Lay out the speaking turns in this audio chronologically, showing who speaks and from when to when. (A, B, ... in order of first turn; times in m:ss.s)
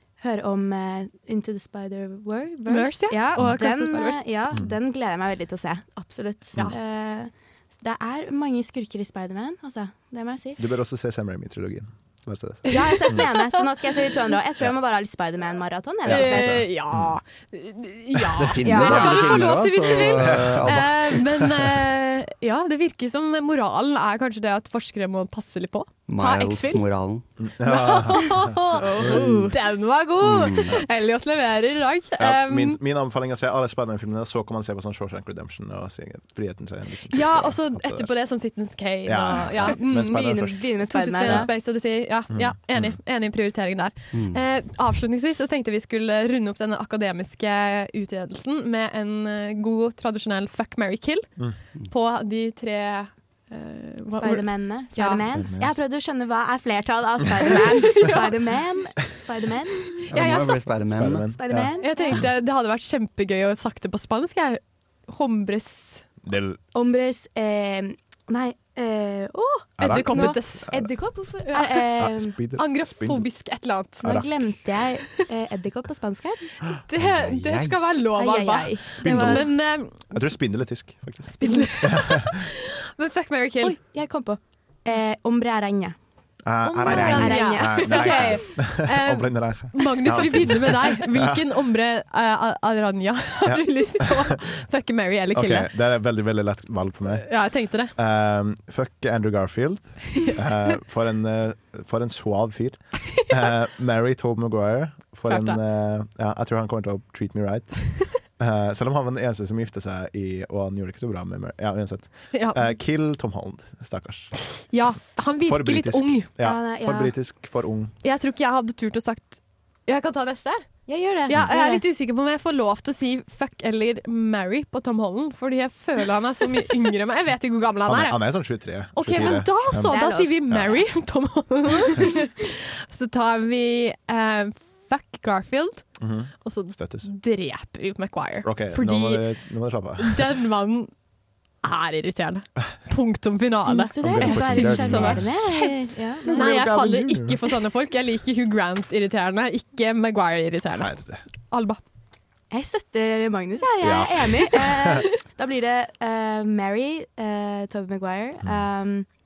0:00.2-0:10.6 A
0:02.7-0:04.2 B
0:10.6-0:13.3 C
0:12.7-0:13.6 B
0:12.7-0:16.7 A
0:16.0-0:16.7 C
0:16.1-0:26.8 B
0:18.4-0:21.0 D
0:18.6-0:19.3 A
0:20.2-0:21.8 C
0:26.1-0:27.2 D
0:27.4-0:29.4 C
0:27.6-0:32.8 B
0:28.4-0:29.6 A
0:29.1-0:29.3 D
0:30.2-0:30.8 D
0:32.2-0:38.1 C
0:37.1-0:51.4 B
0:39.0-0:40.7 C
0:39.9-0:41.5 A
0:41.2-0:41.5 C
0:42.3-0:43.0 C
0:44.1-0:44.4 D
0:51.9-0:55.2 B
0:54.1-1:00.0 A
0:55.3-0:55.8 C
1:00.1-1:01.3 D
1:00.1-1:00.6 B
1:00.9-1:02.2 C
1:01.3-1:02.3 A
1:01.8-1:06.0 B
1:06.2-1:06.6 C
1:06.7-1:12.4 A
1:09.8-1:10.9 C
1:09.8-1:10.9 B
1:11.5-1:14.0 B
1:12.0-1:13.3 C
1:14.0-1:14.5 C
1:14.0-1:16.6 A
1:16.9-1:20.3 B
1:17.0-1:17.8 D
1:18.2-1:19.5 A
1:19.0-1:22.3 C
1:21.3-1:23.8 B
1:23.6-1:26.0 A
1:26.4-1:31.5 C
1:26.6-1:35.7 B
1:26.8-1:28.4 A
1:26.9-1:27.3 D
1:33.4-1:34.3 C
1:35.3-1:37.3 C
1:37.2-1:37.9 B
1:38.0-1:54.3 C
1:45.3-1:45.6 B
1:52.3-1:52.7 B
1:54.5-1:56.3 B
1:55.4-1:57.9 C
1:56.4-1:57.2 A
1:58.0-2:00.6 B
2:00.9-2:01.8 A
2:01.3-2:08.3 B
2:07.9-2:10.8 C
2:08.9-2:15.8 B
2:09.8-2:10.7 A
2:16.0-2:17.1 C
2:16.4-2:19.2 B
2:18.4-2:20.3 C
2:20.0-2:20.9 B
2:21.6-2:31.0 B
2:23.6-2:26.6 A
2:24.0-2:25.5 C
2:26.2-2:27.5 C
2:30.8-2:31.2 C
2:31.5-2:31.8 B
2:32.5-2:39.1 A
2:33.8-2:35.0 C